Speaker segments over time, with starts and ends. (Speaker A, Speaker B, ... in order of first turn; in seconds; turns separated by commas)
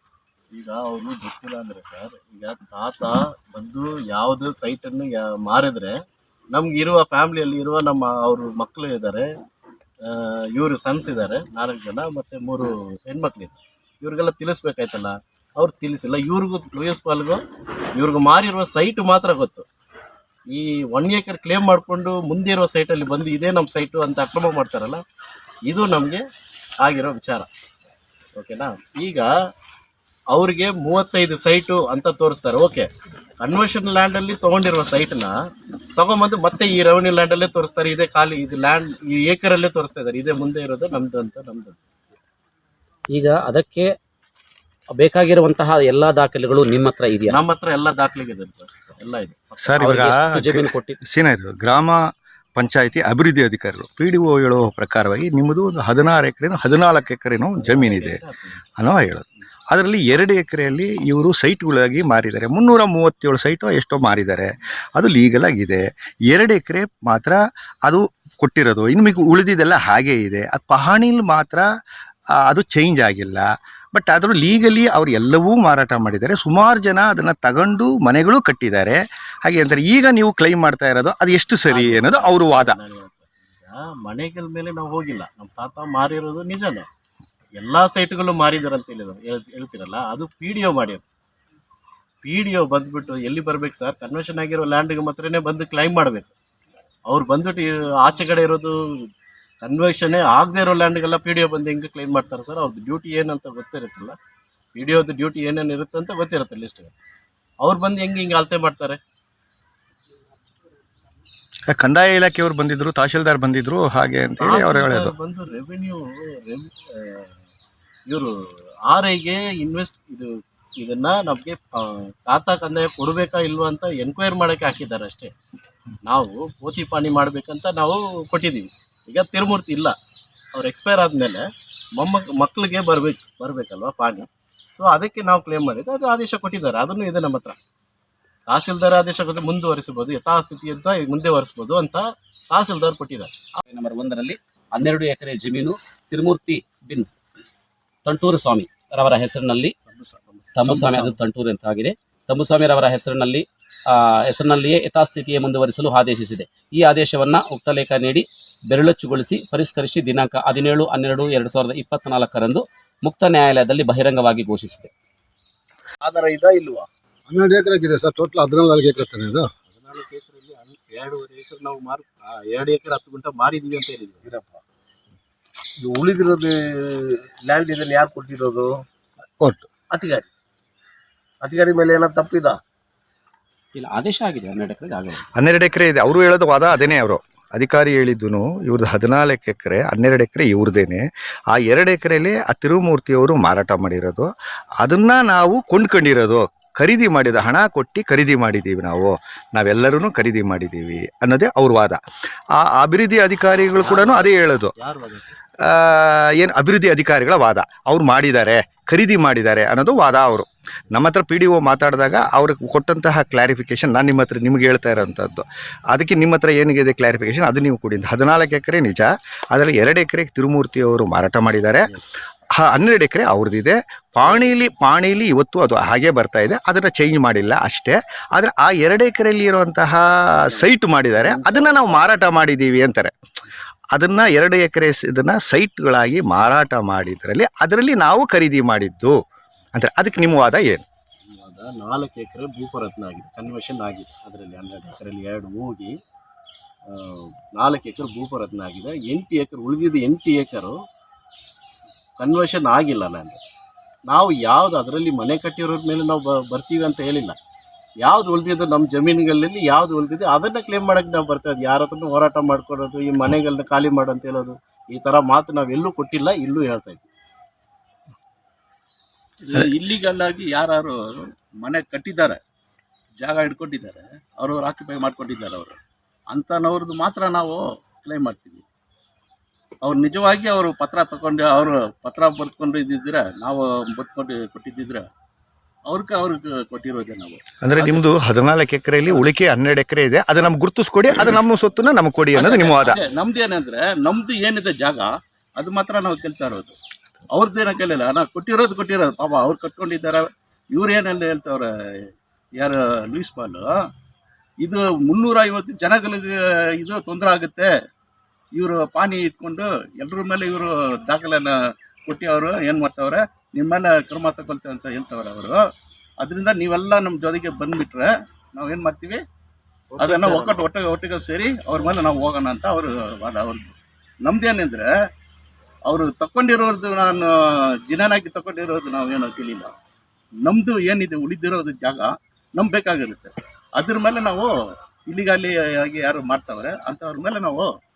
Speaker A: 0.5-9.3, Speaker A: 10.0-17.4, Speaker A: 17.9-19.7, Speaker A: 20.5-25.0, Speaker A: 25.7-26.2, Speaker A: 26.8-27.5, Speaker A: 28.4-29.3, Speaker A: 30.3-32.9, Speaker A: 33.4-35.4, Speaker A: 36.0-41.8, Speaker B: 43.1-43.9, Speaker B: 44.9-47.4, Speaker A: 47.3-50.1, Speaker C: 49.6-52.0, Speaker B: 49.8-51.0, Speaker C: 52.5-58.2, Speaker A: 57.6-58.6, Speaker C: 58.8-71.7, Speaker C: 72.5-82.8, Speaker A: 81.7-86.9, Speaker A: 87.6-91.0, Speaker A: 92.2-96.3, Speaker A: 97.1-99.1, Speaker A: 99.6-104.2, Speaker A: 104.7-106.9, Speaker A: 107.6-109.0, Speaker C: 111.7-115.1, Speaker A: 114.4-117.3, Speaker A: 118.1-118.3, Speaker A: 118.9-125.3, Speaker A: 126.0-129.9, Speaker A: 130.5-131.4, Speaker A: 132.0-137.6, Speaker A: 138.5-143.3, Speaker B: 143.6-147.1, Speaker B: 148.0-149.7, Speaker A: 149.9-151.2, Speaker B: 150.5-164.9, Speaker D: 166.0-166.9, Speaker E: 167.3-169.5, Speaker A: 169.7-174.2, Speaker D: 174.2-174.6, Speaker D: 175.8-178.8, Speaker E: 179.4-179.7, Speaker D: 179.9-180.3, Speaker D: 181.4-182.6, Speaker B: 183.7-185.2, Speaker C: 185.3-202.0, Speaker C: 202.5-204.7, Speaker A: 203.8-205.3, Speaker C: 205.6-221.9, Speaker C: 222.6-233.1, Speaker C: 233.9-239.2, Speaker C: 239.7-240.8, Speaker A: 241.3-246.0, Speaker A: 246.9-250.8, Speaker A: 252.2-253.4, Speaker A: 254.1-257.4, Speaker A: 258.0-267.1, Speaker F: 269.4-271.0, Speaker F: 271.6-272.4, Speaker F: 273.2-275.8, Speaker F: 276.3-278.6, Speaker F: 279.8-285.1, Speaker F: 285.9-288.1, Speaker C: 287.6-293.0, Speaker F: 292.3-296.8, Speaker F: 297.3-303.7, Speaker F: 304.6-307.7, Speaker F: 308.6-315.6, Speaker F: 316.2-319.2, Speaker A: 319.9-320.6, Speaker F: 320.0-324.9, Speaker F: 325.9-329.7, Speaker F: 330.4-334.5, Speaker F: 335.1-337.7